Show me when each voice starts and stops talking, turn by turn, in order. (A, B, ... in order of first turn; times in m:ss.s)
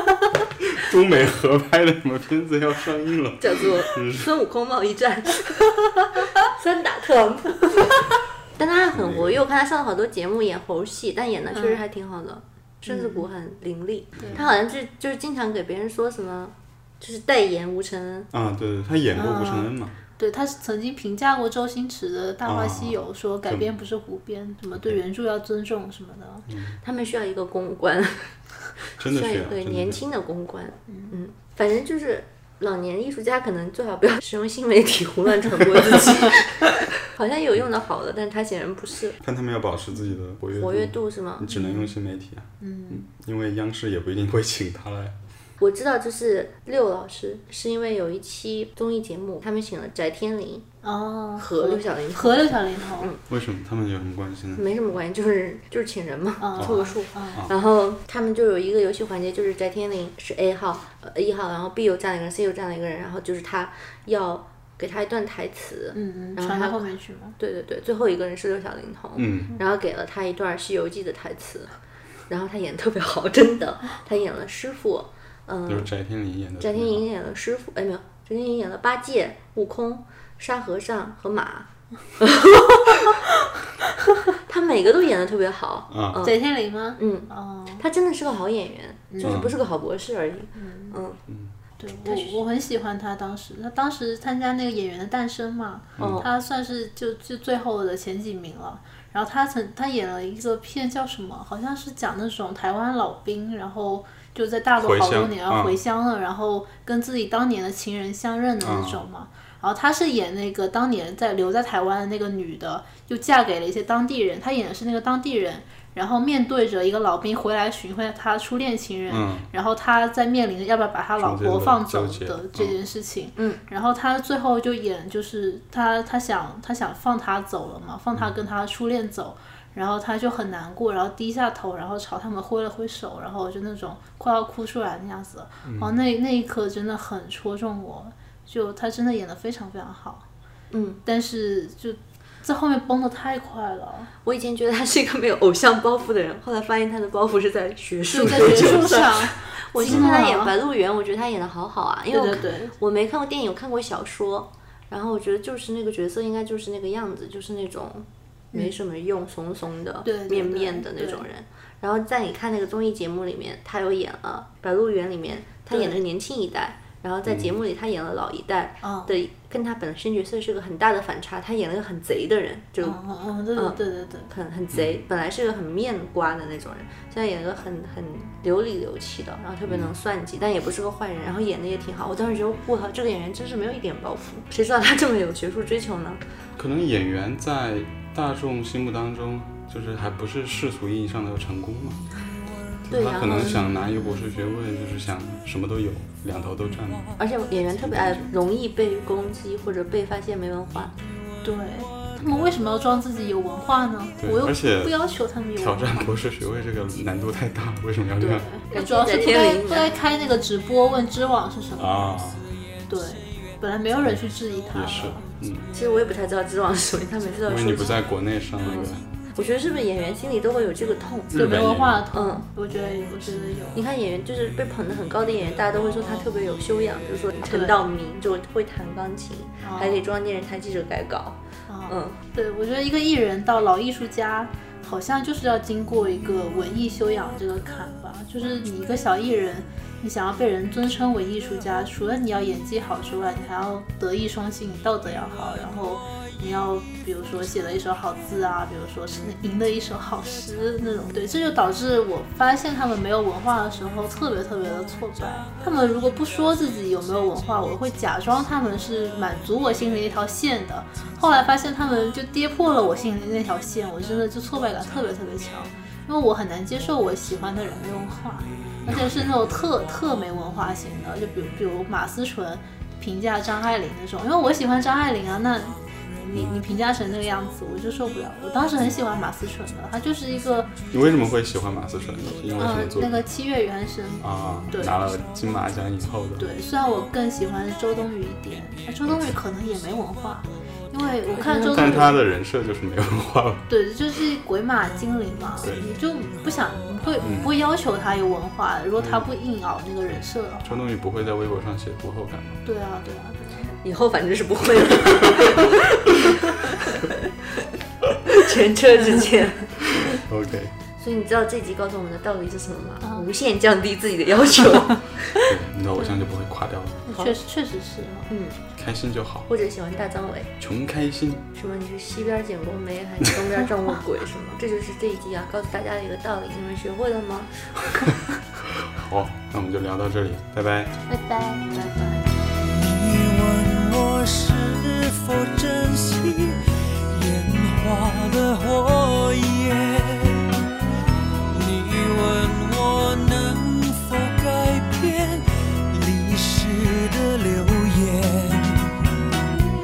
0:00.6-0:04.3 A
0:03.4-0:18.3 B
0:08.9-0:09.4 A
0:11.5-0:11.8 C
0:12.9-0:13.2 C
0:14.2-0:14.5 A
0:18.3-0:20.0 A
0:19.1-0:26.5 C
0:22.4-0:23.7 A
0:26.5-0:26.8 A
0:26.8-0:28.3 B
0:28.8-0:39.2 B
0:29.0-0:30.0 A
0:39.2-0:45.2 A
0:40.5-0:41.5 B
0:41.5-0:41.9 C
0:42.6-0:43.1 C
0:45.6-0:50.6 B
0:50.8-0:53.1 C
0:51.4-0:53.2 B
0:53.3-0:54.7 A
0:54.6-1:11.8 B
0:56.4-0:57.5 C
0:56.6-0:57.5 A
1:05.9-1:07.4 C
1:09.2-1:09.5 A
1:12.3-1:15.9 B
1:15.7-1:17.0 A
1:16.6-1:23.3 B
1:24.4-1:26.4 B
1:25.9-1:26.2 A
1:26.2-1:27.8 C
1:27.0-1:31.2 B
1:29.1-1:29.4 C
1:29.2-1:29.5 A
1:30.6-1:31.0 C
1:31.8-2:20.3 C
1:32.0-1:32.4 B
1:36.0-1:36.3 A
1:36.0-1:36.3 B
1:44.8-1:45.8 A
1:48.6-1:49.0 A
1:59.1-1:59.4 A
2:01.2-2:02.8 A
2:15.6-2:15.9 A
2:20.7-2:21.0 B
2:21.0-2:24.1 C
2:24.2-2:53.0 B
2:28.1-2:30.5 C
2:32.1-2:32.7 C
2:40.0-2:41.2 C
2:45.7-2:46.0 C
2:47.3-2:47.5 A
2:48.8-2:49.2 C
2:52.8-2:54.3 C
2:54.3-3:06.2 B
2:54.7-2:55.0 A
2:59.7-2:59.9 A
3:06.6-3:12.0 A
3:12.9-3:17.2 A
3:12.9-3:13.9 B
3:12.9-3:13.7 C
3:17.2-3:20.9 B
3:17.8-3:18.3 A
3:21.4-3:26.1 C
3:24.2-3:25.0 A
3:25.6-3:28.4 A
3:28.2-3:32.1 C
3:28.7-3:29.9 B
3:31.8-3:32.5 A
3:32.9-3:35.3 C
3:34.7-3:35.7 A
3:35.7-3:38.0 B
3:37.4-3:39.1 A
3:38.6-3:41.5 B
3:41.3-3:42.0 A
3:41.3-3:43.8 C
3:42.1-3:42.4 B
3:43.7-3:52.2 B
3:47.5-3:47.8 C
3:49.6-3:50.0 C
3:51.7-4:40.8 C
4:28.8-4:29.3 A
4:40.9-4:43.2 A
4:42.6-4:45.0 C
4:44.2-4:46.5 A
4:46.4-4:52.2 C
4:49.1-4:49.4 A
4:51.2-4:52.1 B
4:51.7-4:53.7 A
4:53.7-5:00.8 C
4:55.6-4:55.8 A
4:57.2-4:57.5 A
4:59.0-4:59.3 A
5:00.6-5:02.6 A
5:02.6-5:03.7 C
5:03.8-5:07.3 B
5:08.3-5:09.8 B
5:10.0-5:10.7 A
5:11.0-5:15.5 B
5:15.4-5:17.1 A
5:17.1-5:18.3 C
5:18.3-5:18.6 B
5:18.7-5:19.5 A
5:19.5-5:20.5 B
5:20.6-5:21.4 A
5:21.5-5:28.1 B
5:28.6-5:30.9 A
5:31.1-5:32.3 B
5:32.5-5:40.7 D
5:41.5-5:49.1 D